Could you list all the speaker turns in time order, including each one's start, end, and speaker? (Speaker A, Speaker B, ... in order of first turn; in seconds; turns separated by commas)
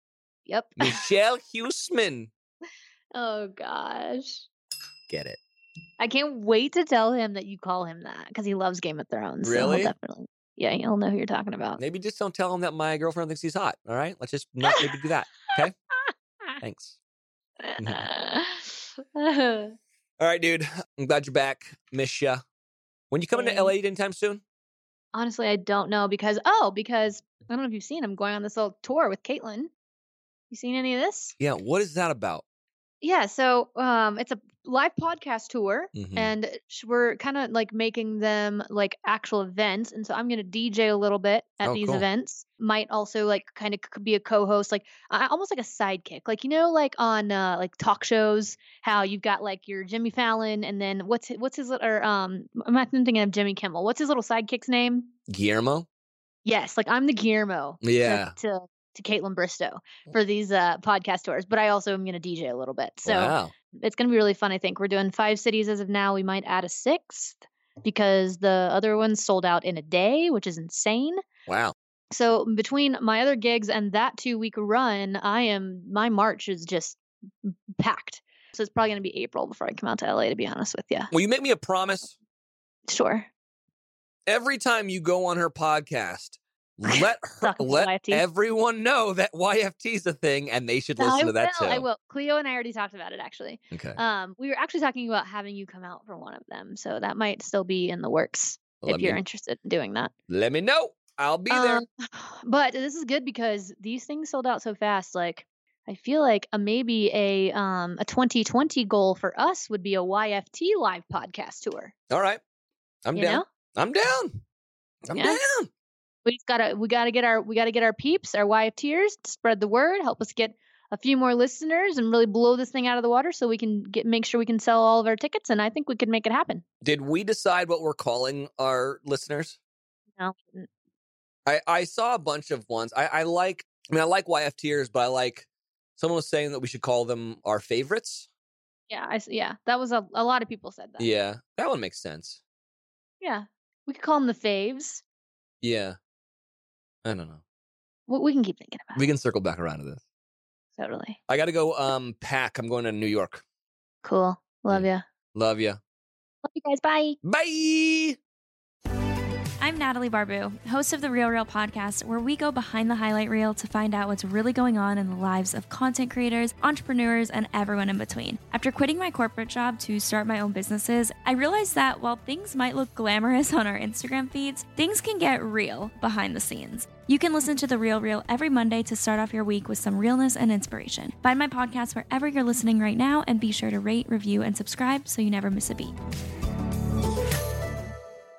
Speaker A: 0.5-1.1, Speaker B: 0.8-2.3, Speaker A: 3.1-4.5, Speaker B: 5.1-5.4, Speaker A: 6.0-11.8, Speaker B: 9.4-9.9, Speaker B: 11.8-15.8, Speaker A: 14.7-15.0, Speaker B: 16.6-17.0, Speaker A: 17.6-19.8, Speaker B: 17.8-18.1, Speaker B: 20.2-22.4, Speaker B: 23.1-24.4, Speaker A: 23.3-23.7, Speaker A: 25.1-29.7, Speaker A: 30.5-31.4, Speaker B: 31.4-32.4, Speaker A: 33.0-55.1, Speaker B: 36.0-36.3, Speaker B: 41.6-42.1, Speaker B: 55.3-55.9, Speaker A: 56.5-71.2, Speaker B: 57.8-58.4, Speaker B: 63.0-63.5, Speaker B: 71.5-71.8, Speaker A: 72.1-81.1, Speaker B: 81.1-82.2, Speaker A: 82.9-83.3, Speaker B: 84.3-91.9, Speaker A: 86.9-88.2, Speaker A: 91.0-100.1, Speaker B: 93.7-94.0, Speaker B: 98.8-99.2, Speaker B: 100.3-101.8, Speaker A: 101.5-111.9, Speaker B: 112.1-112.4, Speaker B: 113.0-114.4, Speaker A: 113.1-113.5, Speaker B: 115.0-115.7, Speaker A: 115.2-115.4, Speaker A: 116.2-126.6, Speaker B: 126.8-129.6, Speaker A: 130.2-130.7, Speaker B: 131.5-138.3, Speaker A: 138.9-141.1, Speaker B: 141.0-142.4, Speaker A: 143.2-145.0, Speaker B: 145.6-146.0, Speaker B: 147.1-147.4, Speaker A: 148.1-149.0, Speaker B: 148.9-150.0, Speaker A: 150.8-151.2, Speaker B: 151.3-153.4, Speaker A: 154.0-155.0, Speaker B: 154.7-155.8, Speaker A: 156.4-157.2, Speaker B: 157.2-158.2, Speaker C: 159.6-186.0